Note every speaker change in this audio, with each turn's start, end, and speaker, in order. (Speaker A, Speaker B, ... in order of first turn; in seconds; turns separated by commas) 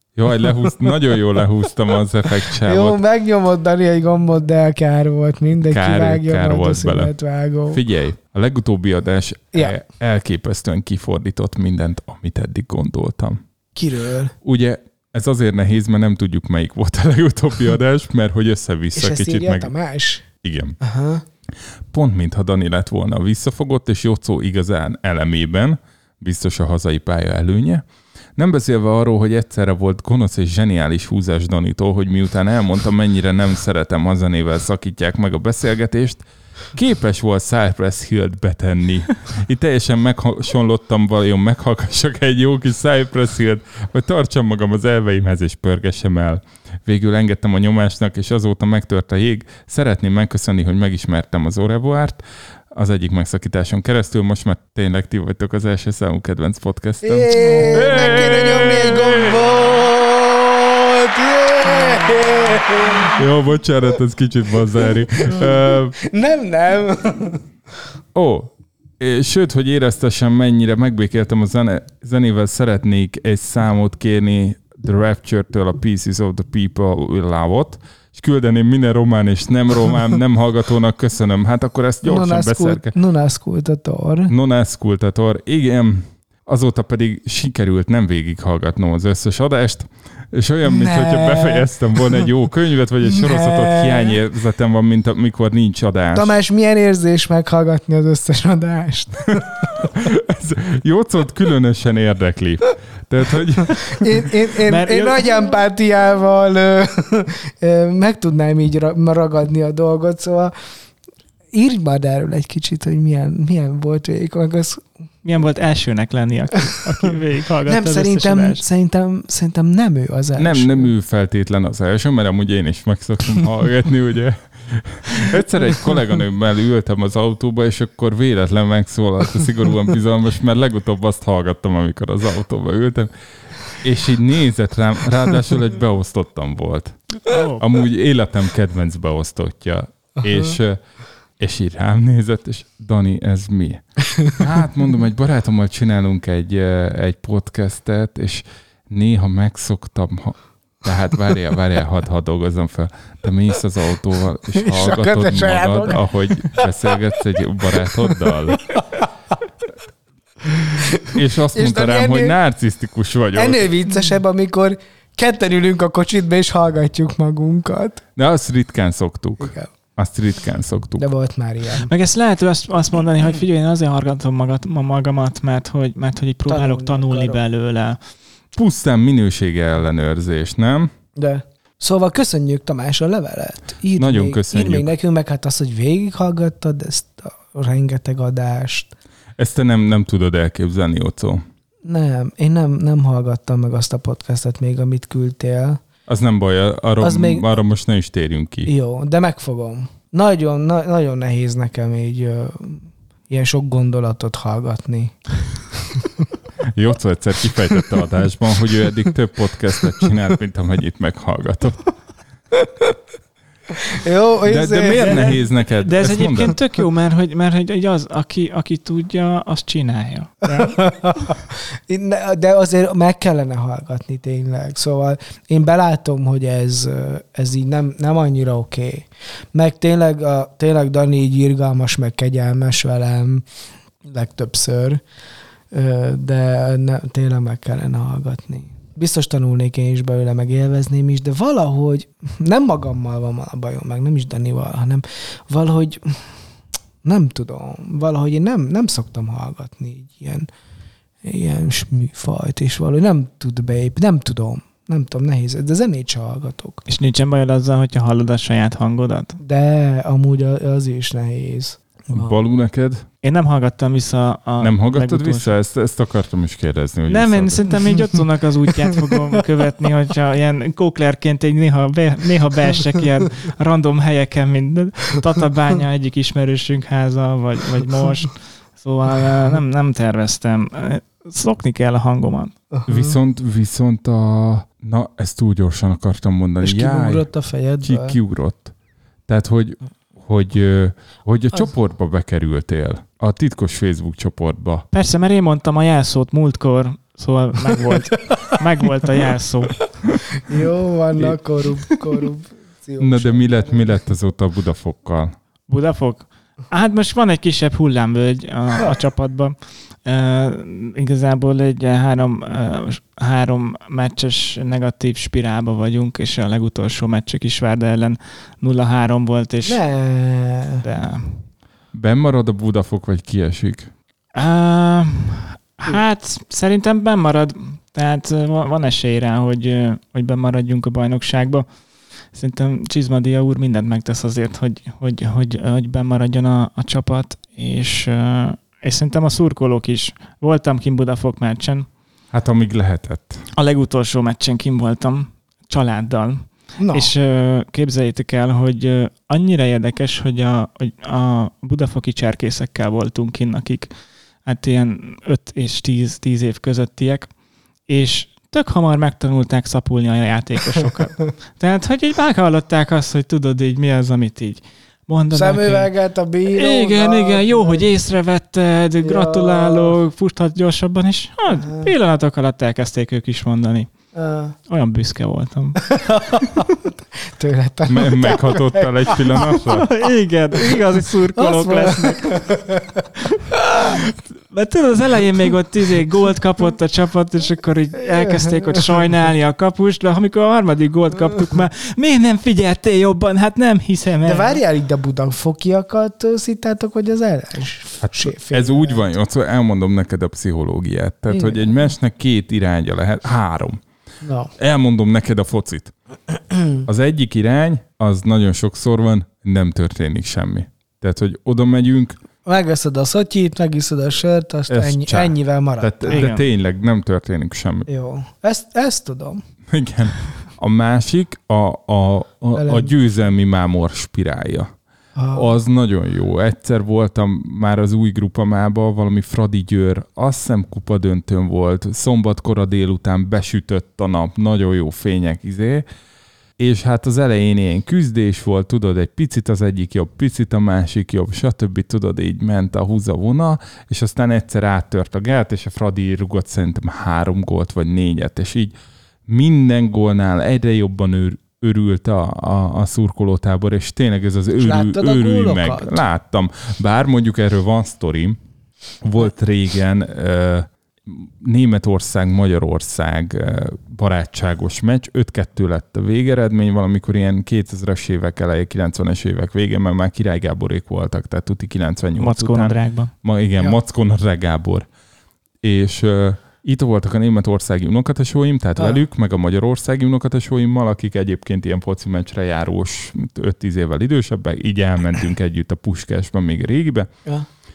Speaker A: 0.1-3.0, Speaker B: 2.5-7.8, Speaker A: 5.6-7.2, Speaker A: 7.7-13.4, Speaker B: 13.7-14.3, Speaker A: 14.4-19.7, Speaker B: 18.9-20.2, Speaker A: 20.4-20.8, Speaker B: 20.8-21.2, Speaker A: 21.9-59.5, Speaker B: 57.0-63.2, Speaker A: 63.1-65.9, Speaker B: 64.7-67.4, Speaker A: 68.1-82.9, Speaker B: 82.0-84.3, Speaker A: 84.3-96.3, Speaker B: 90.6-92.2, Speaker B: 93.0-94.2, Speaker B: 96.1-99.8, Speaker A: 99.8-104.1, Speaker B: 103.8-110.5, Speaker C: 104.6-105.2, Speaker B: 111.5-114.9, Speaker C: 115.2-118.6, Speaker B: 117.6-120.9, Speaker A: 120.4-133.1, Speaker A: 133.7-140.8, Speaker C: 137.3-137.6, Speaker B: 140.2-140.6, Speaker A: 141.4-158.7, Speaker B: 154.5-156.7, Speaker B: 158.7-159.0, Speaker B: 160.6-161.0, Speaker A: 161.1-163.7, Speaker B: 161.5-162.4, Speaker B: 163.3-168.0, Speaker A: 168.2-171.1, Speaker B: 169.4-169.7, Speaker B: 171.0-171.9, Speaker C: 171.8-178.0, Speaker B: 176.4-177.4, Speaker A: 178.6-180.9, Speaker B: 181.2-188.9, Speaker A: 184.0-184.9, Speaker A: 189.4-191.4, Speaker B: 191.8-195.8, Speaker A: 196.1-198.7, Speaker B: 197.0-197.5, Speaker B: 198.7-205.2, Speaker A: 206.7-211.8, Speaker B: 212.6-212.9, Speaker B: 213.8-215.3, Speaker A: 214.4-216.6, Speaker C: 215.0-221.3, Speaker B: 220.6-233.4, Speaker B: 234.0-235.0, Speaker B: 235.7-246.3, Speaker B: 247.0-250.5, Speaker B: 251.2-256.8, Speaker C: 256.9-259.4, Speaker B: 259.4-262.3, Speaker A: 262.1-263.0, Speaker C: 263.2-265.5, Speaker A: 264.6-267.7, Speaker C: 267.1-282.5, Speaker B: 282.7-283.2, Speaker A: 282.9-287.3, Speaker B: 286.6-288.2, Speaker A: 287.8-288.7, Speaker A: 289.3-294.9, Speaker C: 294.9-299.9, Speaker B: 300.4-303.9, Speaker A: 303.0-305.3, Speaker C: 305.7-319.8, Speaker B: 319.6-320.8, Speaker C: 320.8-321.4, Speaker A: 321.9-323.9, Speaker C: 324.3-331.7, Speaker C: 332.3-341.9, Speaker A: 342.3-343.4, Speaker C: 343.6-357.3, Speaker B: 346.8-347.1, Speaker C: 357.9-365.9, Speaker B: 365.3-367.9, Speaker C: 366.5-373.9, Speaker B: 369.0-370.0, Speaker B: 371.6-371.9, Speaker B: 374.1-374.5, Speaker C: 374.7-376.3, Speaker B: 375.9-376.6, Speaker B: 377.2-379.6, Speaker A: 377.9-379.9, Speaker C: 379.6-382.3, Speaker B: 380.5-380.8, Speaker B: 381.3-383.1, Speaker C: 384.5-394.6, Speaker B: 388.1-389.1, Speaker B: 394.2-399.0, Speaker A: 398.0-403.8, Speaker B: 401.3-401.8, Speaker B: 404.2-404.5, Speaker A: 404.6-405.9, Speaker B: 406.5-406.8, Speaker A: 406.8-412.2, Speaker B: 412.4-416.3, Speaker A: 414.7-417.9, Speaker C: 416.1-416.4, Speaker B: 417.9-419.4, Speaker A: 419.7-424.7, Speaker B: 422.5-422.9, Speaker B: 425.1-425.5, Speaker A: 425.3-435.8, Speaker A: 436.6-448.7, Speaker A: 449.3-458.4, Speaker B: 454.6-456.0, Speaker A: 459.0-474.9, Speaker C: 472.2-473.1, Speaker A: 475.6-487.1, Speaker B: 478.8-479.0